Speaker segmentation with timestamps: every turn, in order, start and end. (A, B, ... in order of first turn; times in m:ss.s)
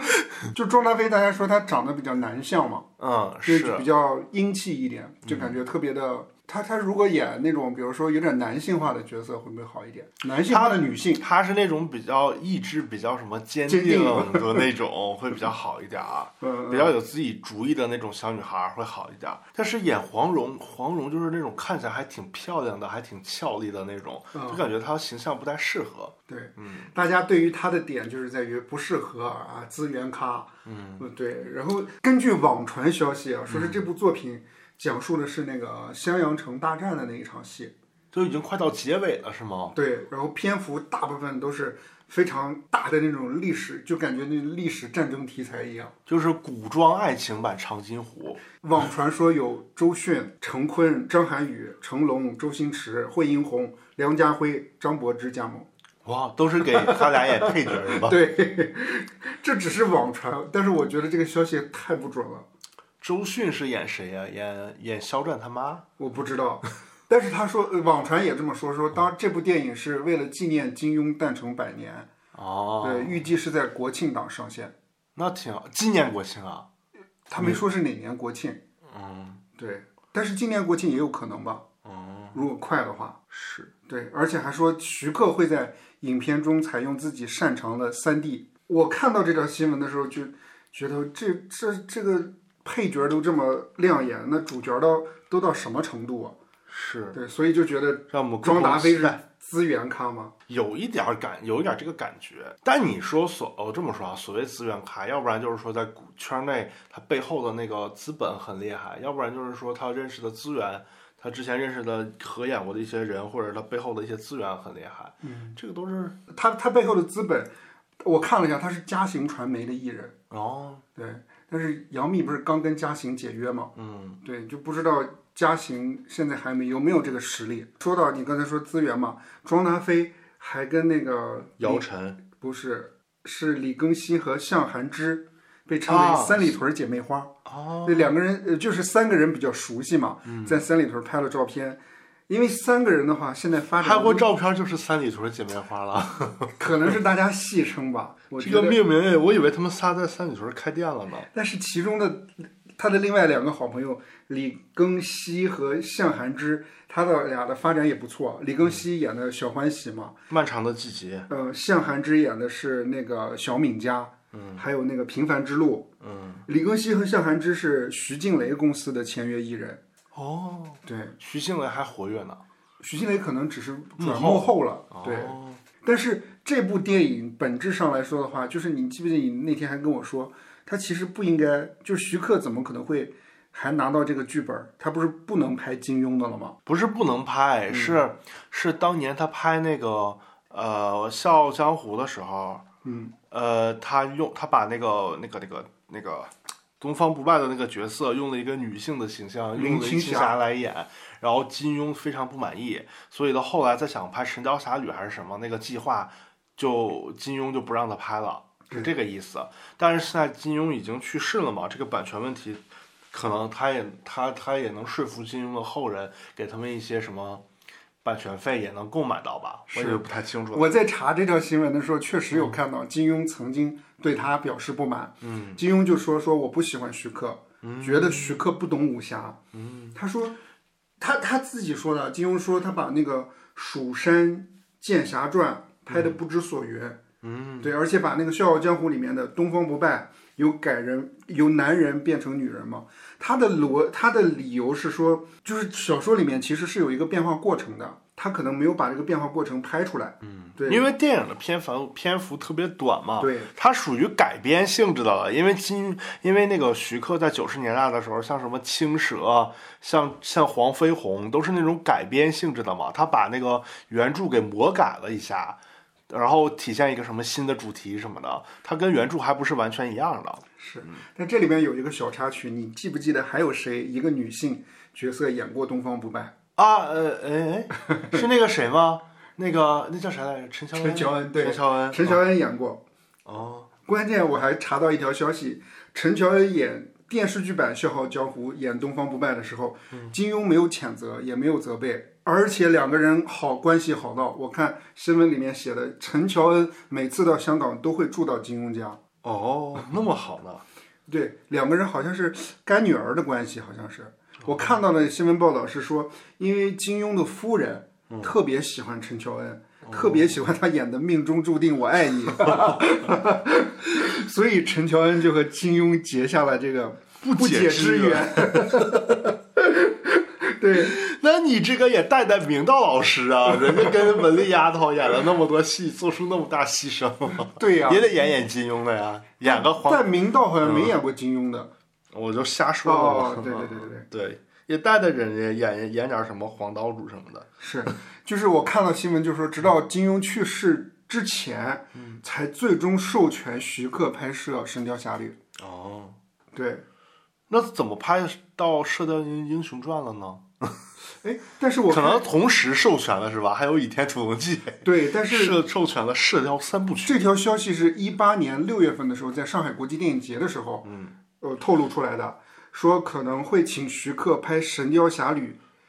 0:00.5-0:02.9 A
0:03.0-0:03.9 B
0:03.5-0:11.2 A
0:05.2-0:05.6 B
0:10.4-0:26.9 B
0:13.7-0:14.7 A
0:16.4-0:17.0 A
0:24.3-0:24.6 A
0:26.3-0:37.7 A
0:30.7-0:31.0 B
0:33.5-0:33.8 B
0:38.1-0:39.8 B
0:39.7-0:45.9 A
0:46.1-0:48.4 B
0:48.6-0:55.7 A
0:56.0-0:58.2 B
0:56.7-1:02.5 A
1:03.0-1:05.8 B
1:06.0-1:12.1 A
1:12.3-1:13.3 B
1:12.8-1:14.7 A
1:15.2-1:16.7 B
1:17.3-1:18.6 A
1:17.4-1:17.6 B
1:18.9-1:19.4 B
1:19.6-1:21.7 A
1:21.8-1:22.4 B
1:22.3-1:23.2 A
1:23.3-1:23.7 B
1:23.9-1:36.4 A
1:36.7-1:37.2 B
1:37.1-1:40.3 A
1:38.1-1:39.2 B
1:40.5-1:56.2 B
1:55.2-1:55.6 A
1:56.3-1:57.5 A
1:58.0-2:00.2 A
2:00.3-2:00.8 B
2:01.0-2:24.3 A
2:03.8-2:04.2 B
2:11.6-2:12.2 B
2:15.9-2:16.6 B
2:17.5-2:18.2 B
2:20.3-2:20.6 B
2:23.8-2:27.0 B
2:26.6-2:28.8 A
2:28.4-2:31.3 B
2:31.3-2:40.2 A
2:40.3-2:41.3 B
2:41.3-2:45.9 A
2:44.3-2:44.6 B
2:46.0-2:46.4 B
2:46.5-2:49.8 A
2:50.1-2:52.4 B
2:50.9-2:51.2 A
2:52.8-3:06.6 A
2:54.0-2:55.6 B
3:06.7-3:12.6 B
3:07.7-3:08.0 A
3:12.8-3:13.1 A
3:13.3-3:37.4 B
3:19.6-3:20.4 A
3:38.0-3:40.7 B
3:39.7-3:49.4 A
3:45.2-3:45.6 B
3:47.6-3:48.4 B
3:49.5-3:50.0 B
3:50.0-3:50.4 A
3:51.0-3:57.0 A
3:55.9-3:56.2 B
3:57.2-3:57.7 B
3:57.6-4:10.9 A
4:10.2-4:31.0 B
4:13.2-4:13.5 A
4:30.6-4:36.3 A
4:36.6-4:42.2 B
4:37.9-4:38.2 A
4:40.8-4:42.8 A
4:43.2-4:43.7 B
4:43.9-4:59.0 A
4:59.2-5:00.6 B
5:01.1-5:21.0 A
5:09.8-5:10.5 B
5:12.3-5:12.9 B
5:17.2-5:19.3 B
5:20.7-5:30.1 B
5:27.5-5:28.2 A
5:29.4-5:31.7 A
5:30.6-5:31.0 B
5:32.1-5:37.5 B
5:32.8-5:34.1 A
5:37.6-5:45.4 A
5:42.0-5:42.2 B
5:45.6-5:46.2 B
5:46.5-5:46.8 A
5:47.5-5:50.8 B
5:51.2-5:52.2 A
5:51.9-5:57.2 B
5:54.8-5:55.6 A
5:57.0-6:00.9 A
6:00.8-6:01.1 B
6:01.4-6:05.6 A